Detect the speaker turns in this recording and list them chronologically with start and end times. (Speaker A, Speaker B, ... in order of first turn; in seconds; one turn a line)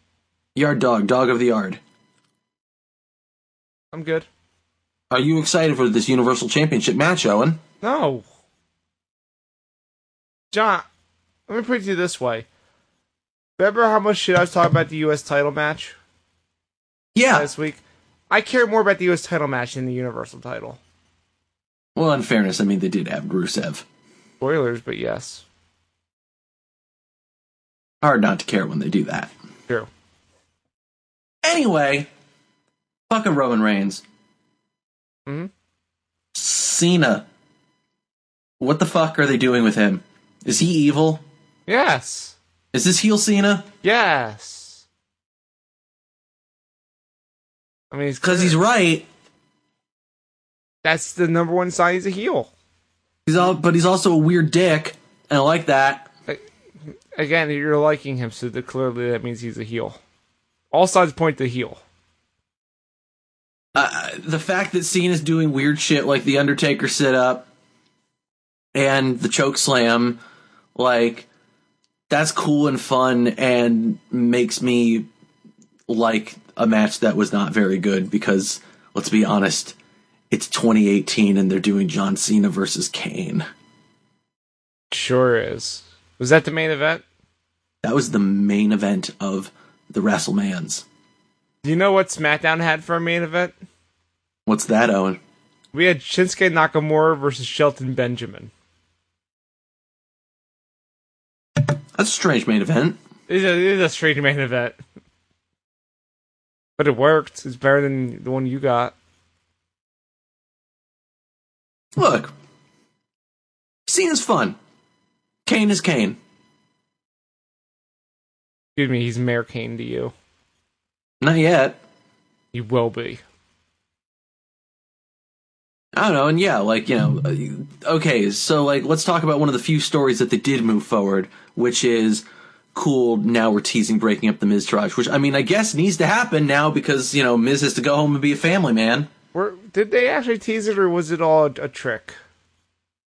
Speaker A: 0.6-1.8
Speaker B: 3.9-4.3
Speaker A: 5.1-7.6
Speaker B: 7.8-8.2
Speaker B: 10.5-10.8
Speaker B: 11.5-12.5
Speaker B: 13.6-15.9
Speaker A: 17.1-17.5
Speaker B: 17.3-20.8
Speaker A: 21.9-23.9
Speaker B: 24.4-25.4
Speaker A: 28.0-29.3
Speaker A: 31.4-32.1
Speaker A: 33.1-34.0
Speaker A: 36.3-37.3
Speaker A: 38.6-41.2
Speaker B: 41.7-42.4
Speaker A: 42.7-43.7
Speaker B: 43.8-44.8
Speaker B: 47.9-48.6
Speaker A: 48.2-49.1
Speaker B: 50.8-52.5
Speaker A: 53.3-56.1
Speaker B: 57.2-60.0
Speaker B: 60.7-61.8
Speaker A: 63.8-67.5
Speaker A: 68.7-70.2
Speaker A: 70.8-71.3
Speaker A: 72.1-75.1
Speaker A: 75.9-79.8
Speaker A: 80.3-83.5
Speaker B: 84.9-87.0
Speaker A: 87.8-90.8
Speaker B: 91.6-93.5
Speaker A: 94.5-95.2
Speaker B: 95.7-98.5
Speaker A: 102.0-103.0
Speaker B: 103.3-104.8
Speaker B: 106.8-108.9
Speaker A: 112.0-112.3
Speaker A: 113.9-114.6
Speaker A: 115.5-116.2
Speaker B: 118.8-120.1
Speaker A: 121.2-121.8
Speaker B: 122.5-123.2
Speaker A: 125.9-139.1
Speaker B: 139.3-142.2